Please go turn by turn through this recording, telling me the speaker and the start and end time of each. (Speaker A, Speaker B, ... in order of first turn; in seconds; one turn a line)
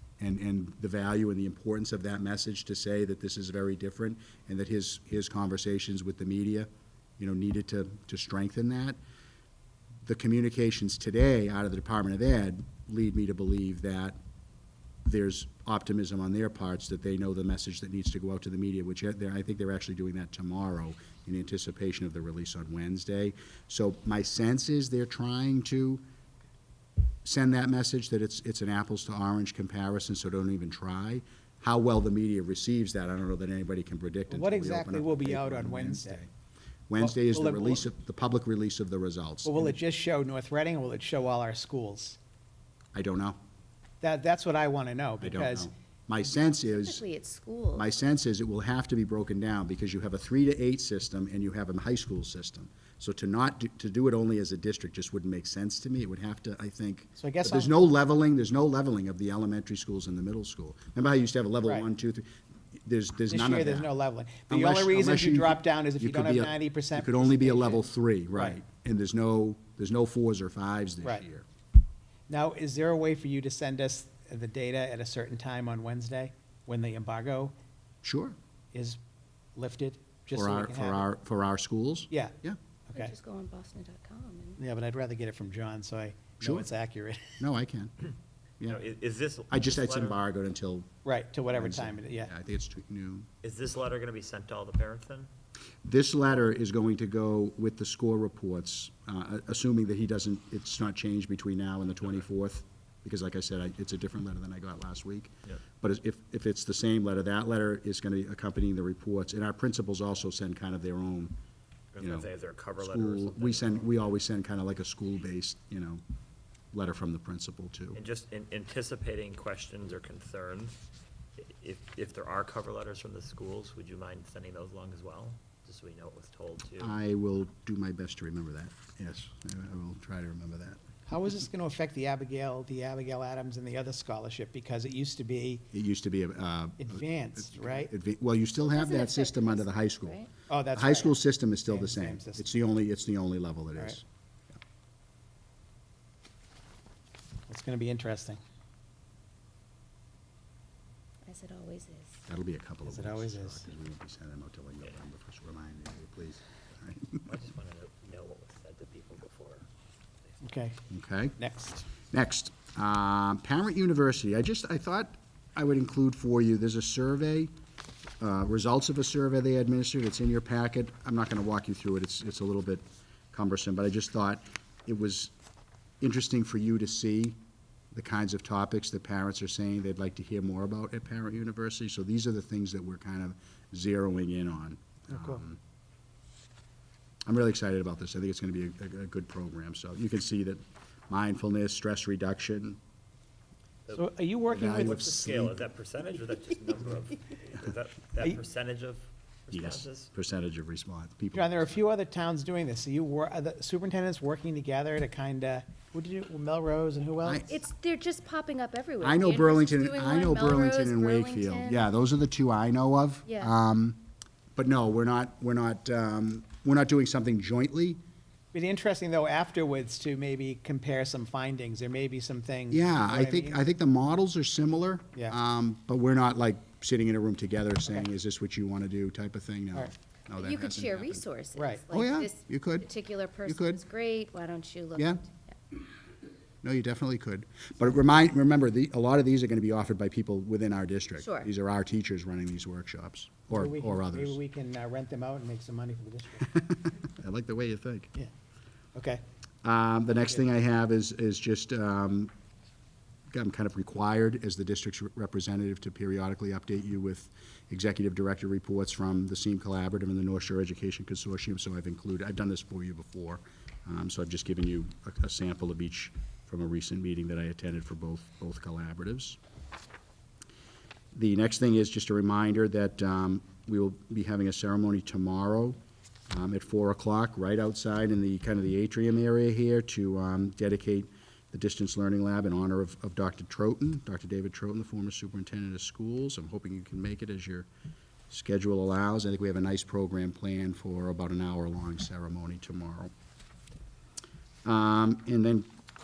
Speaker A: 0.2-9.0
Speaker A: 10.0-14.2
Speaker A: 15.0-26.0
Speaker A: 27.2-36.3
Speaker B: 34.3-36.2
Speaker A: 36.9-39.8
Speaker B: 37.0-37.8
Speaker B: 39.4-42.2
Speaker A: 42.9-43.4
Speaker B: 44.0-45.7
Speaker A: 45.2-47.0
Speaker C: 46.7-47.9
Speaker A: 47.7-62.3
Speaker B: 57.2-57.8
Speaker A: 62.8-63.9
Speaker B: 63.3-68.6
Speaker A: 64.5-71.5
Speaker B: 72.3-77.5
Speaker A: 78.0-78.3
Speaker B: 78.7-79.0
Speaker B: 79.5-81.0
Speaker A: 80.3-82.6
Speaker B: 82.1-82.3
Speaker C: 82.9-84.6
Speaker B: 84.6-87.4
Speaker A: 86.4-86.7
Speaker A: 87.4-87.9
Speaker D: 88.7-90.2
Speaker A: 89.5-90.9
Speaker B: 91.0-92.3
Speaker A: 91.5-93.3
Speaker D: 93.4-95.3
Speaker A: 95.8-111.3
Speaker D: 111.9-114.0
Speaker A: 112.0-116.0
Speaker A: 116.7-118.0
Speaker D: 117.9-120.8
Speaker D: 121.4-127.0
Speaker A: 126.8-130.8
Speaker B: 131.1-135.7
Speaker A: 135.7-140.2
Speaker B: 136.8-137.9
Speaker C: 138.6-140.3
Speaker B: 140.5-142.4
Speaker A: 140.7-144.0
Speaker B: 147.5-148.4
Speaker C: 151.2-152.2
Speaker A: 152.3-157.2
Speaker B: 152.8-153.6
Speaker D: 157.2-159.7
Speaker B: 160.4-160.8
Speaker A: 160.9-161.3
Speaker B: 161.4-161.8
Speaker A: 162.1-167.5
Speaker A: 168.2-175.3
Speaker A: 176.0-177.4
Speaker A: 177.9-185.6
Speaker B: 185.1-185.4
Speaker A: 187.2-192.8
Speaker D: 193.9-200.1
Speaker B: 193.9-195.0
Speaker A: 194.5-195.6
Speaker A: 199.5-201.5
Speaker B: 201.3-207.5
Speaker A: 207.2-207.6
Speaker C: 207.5-211.8
Speaker A: 209.0-214.0
Speaker A: 214.6-218.0
Speaker B: 218.5-223.6
Speaker A: 222.7-231.2
Speaker C: 230.3-235.5
Speaker B: 231.6-231.8
Speaker A: 231.9-232.9
Speaker A: 233.4-233.8
Speaker A: 234.9-235.2
Speaker A: 236.6-244.4
Speaker C: 241.2-241.5
Speaker B: 243.5-246.5
Speaker A: 246.5-248.1
Speaker B: 248.9-249.2
Speaker A: 249.6-252.3
Speaker A: 253.3-269.4
Speaker A: 271.1-275.8
Speaker A: 276.3-287.7
Speaker A: 288.3-293.1
Speaker A: 294.6-295.7